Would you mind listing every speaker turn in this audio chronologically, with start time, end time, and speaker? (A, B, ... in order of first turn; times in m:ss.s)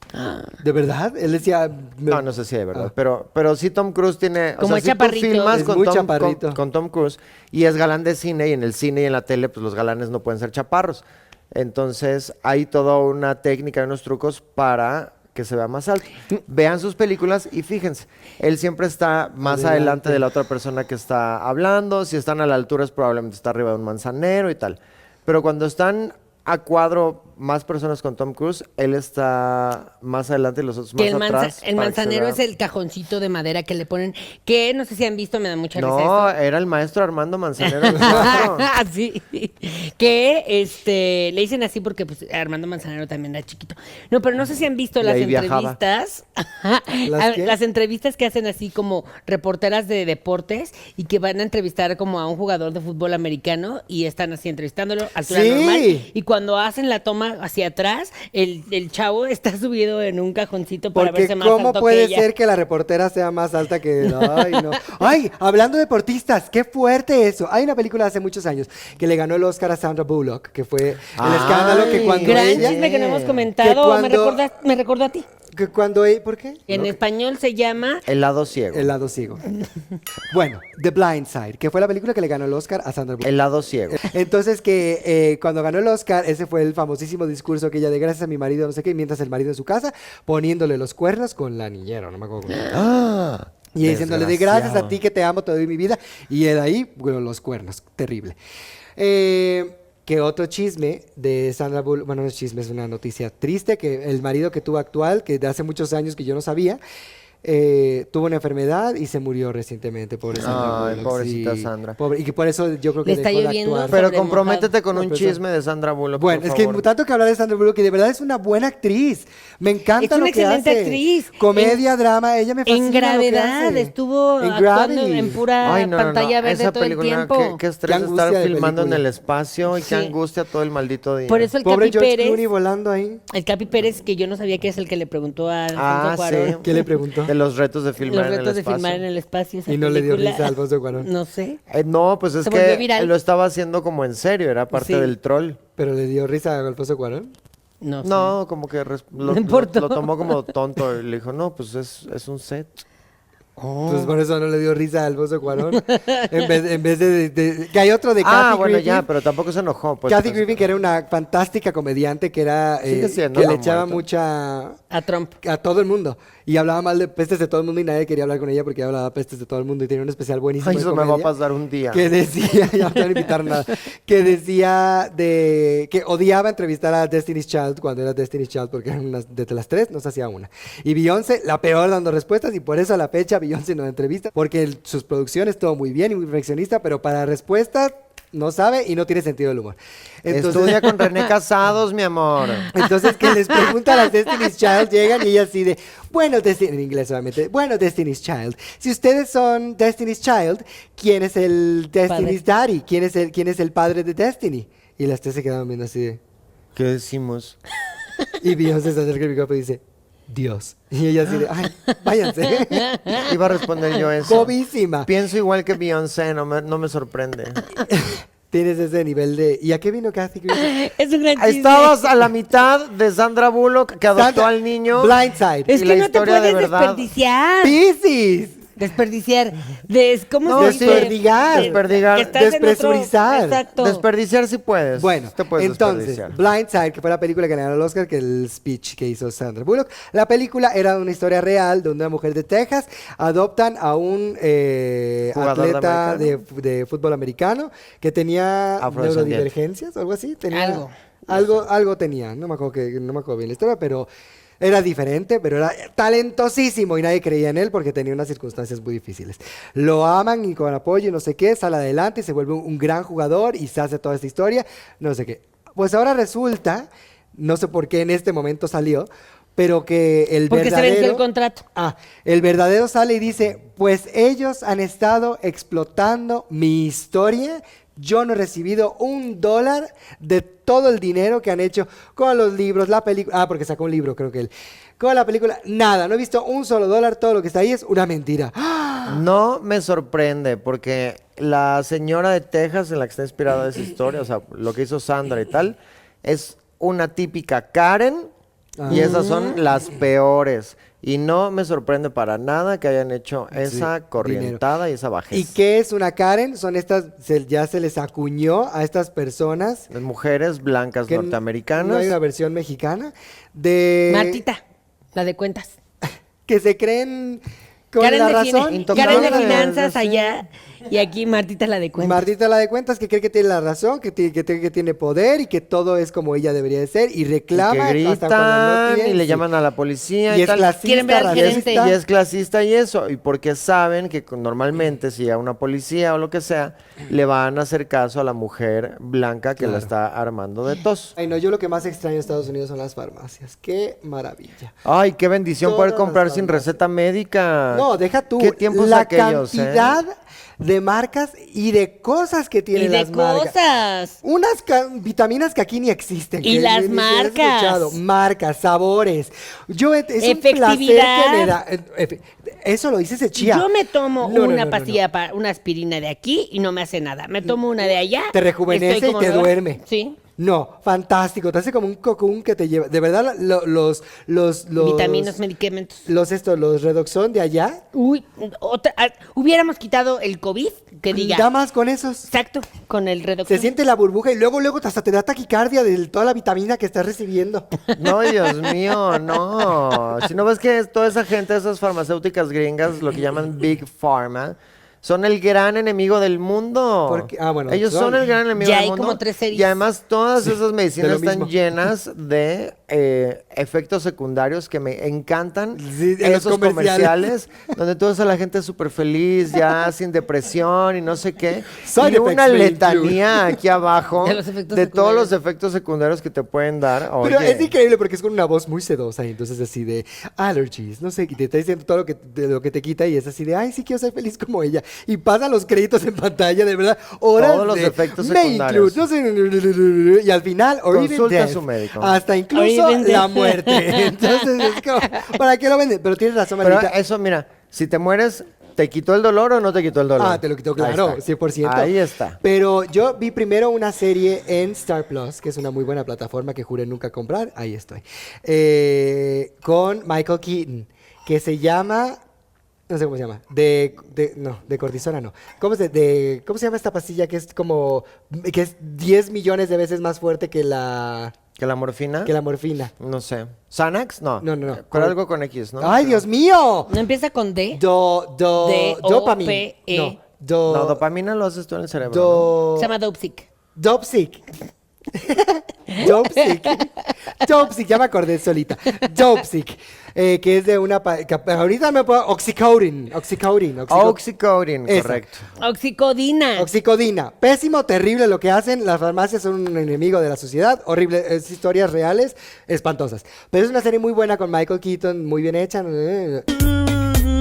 0:00.1-0:00.6 A
0:00.6-0:02.9 B
0:02.1-0:32.4 C
0:04.6-0:05.6 A
0:05.5-0:06.6 B
0:19.4-0:20.2 B
0:31.0-0:36.3 A
0:35.8-0:38.7 C
0:37.6-1:02.3 A
0:37.9-0:38.4 B
0:45.0-0:45.8 C
0:47.1-0:47.6 B
0:55.2-0:56.1 B
1:01.0-1:12.8 B
1:04.1-1:04.6 A
1:11.2-1:13.5 C
1:11.6-1:15.3 A
1:13.6-1:14.4 B
1:15.5-1:16.9 B
1:16.7-1:18.0 A
1:18.1-1:18.9 C
1:18.7-1:19.4 B
1:20.3-1:23.3 B
1:23.2-1:24.0 C
1:23.9-1:32.7 B
1:32.7-1:35.0 C
1:33.7-1:38.4 B
1:39.0-1:46.8 B
1:47.4-1:54.0 B
1:50.4-1:52.0 C
1:53.0-1:54.7 A
1:53.9-1:56.8 C
1:54.9-1:55.4 B
1:56.2-2:05.4 B
2:00.0-2:01.8 A
2:02.7-2:07.6 A
2:05.6-2:11.5 C
2:07.9-2:09.0 B
2:09.8-2:10.1 A
2:11.3-2:12.5 A
2:11.6-2:13.2 B
2:13.3-2:16.9 A
2:15.8-2:16.6 C
2:16.6-2:17.3 B
2:17.3-2:19.0 C
2:18.0-2:21.6 A
2:19.7-2:21.1 B
2:21.7-2:25.6 C
2:22.4-2:23.1 A
2:24.7-2:25.1 A
2:25.8-2:27.3 B
2:27.8-2:28.4 A
2:28.0-2:32.8 C
2:29.2-2:30.4 A
2:33.6-2:34.1 A
2:33.9-2:39.1 B
2:35.7-2:36.5 A
2:38.2-2:40.6 C
2:40.1-2:44.8 B
2:42.8-2:44.0 C
2:44.9-2:45.4 A
2:45.4-2:51.3 B
2:50.6-2:52.1 C
2:51.9-3:11.0 B
3:10.3-3:12.7 C
3:12.7-3:26.2 B
3:22.1-3:22.4 A
3:26.8-3:27.6 C
3:28.4-3:32.9 B
3:32.4-3:33.4 A
3:33.1-3:34.5 C
3:34.3-3:35.1 B
3:35.0-3:37.7 C
3:37.9-3:40.7 B
3:40.5-3:42.2 A
3:41.4-3:45.2 C
3:44.2-3:45.7 B
3:45.7-3:47.8 A
3:45.7-3:47.1 C
3:47.6-3:48.6 B
3:48.8-3:54.0 A
3:50.4-3:52.4 C
3:50.6-3:51.8 B
3:52.3-3:53.6 B
3:53.8-3:56.4 C
3:55.0-4:14.1 B
4:05.3-4:06.3 C
4:08.8-4:09.5 C
4:10.5-4:10.9 A
4:14.6-4:31.2 B
4:30.5-4:31.6 A
4:31.8-4:49.2 B
4:49.1-4:58.3 C
4:58.8-4:59.2 B
4:58.9-5:05.5 C
4:58.9-4:59.6 A
5:03.6-5:04.6 B
5:05.3-5:09.9 B
5:09.9-5:12.2 C
5:11.1-5:14.4 B
5:14.1-5:14.6 A
5:15.2-5:15.7 A
5:16.5-5:19.8 B
5:18.0-5:22.3 A
5:18.7-5:20.3 C
5:22.0-5:29.5 B
5:27.5-5:41.2 C
5:30.3-5:32.0 B
5:30.8-5:31.9 A
5:39.6-5:39.9 B
5:41.2-5:44.7 B
5:44.8-5:47.9 C
5:45.6-5:46.7 B
5:47.7-5:53.5 B
5:48.4-5:50.0 C
5:52.8-5:54.2 A
5:54.2-6:03.7 B
5:56.4-5:58.0 A
6:00.2-6:01.6 A
6:03.4-6:10.2 A
6:04.2-6:05.0 B
6:08.3-6:09.8 B
6:10.4-6:15.4 B
6:14.8-6:16.0 A
6:16.1-6:17.8 B
6:17.9-6:21.5 A
6:21.1-6:22.3 B
6:22.3-6:23.7 A
6:23.5-6:27.7 B
6:27.9-6:57.7 C
6:37.1-6:38.2 B
6:38.6-6:39.7 A
6:41.0-6:41.5 B
6:45.8-6:47.3 B
6:51.8-6:53.4 B
6:54.2-6:55.3 A
6:57.2-7:16.9 B
7:07.4-7:09.0 C
7:10.9-7:12.2 C
7:12.5-7:15.2 A
7:16.6-7:22.4 C
7:20.2-7:32.2 B
7:32.9-7:41.3 B
7:41.6-7:42.3 C
7:42.3-7:42.9 B
7:43.0-7:46.2 C
7:44.4-7:45.2 B
7:45.8-7:47.0 B
7:46.9-7:47.8 A
7:47.7-7:51.0 B
7:48.6-7:50.2 A
7:50.7-7:52.5 C
7:52.1-7:52.9 B
7:52.8-7:53.5 A
7:53.8-7:54.4 B
7:55.1-8:04.2 B
7:55.9-7:56.8 A
8:03.9-8:05.4 C
8:04.9-8:05.2 B
8:05.6-8:06.7 A
8:06.6-8:16.6 B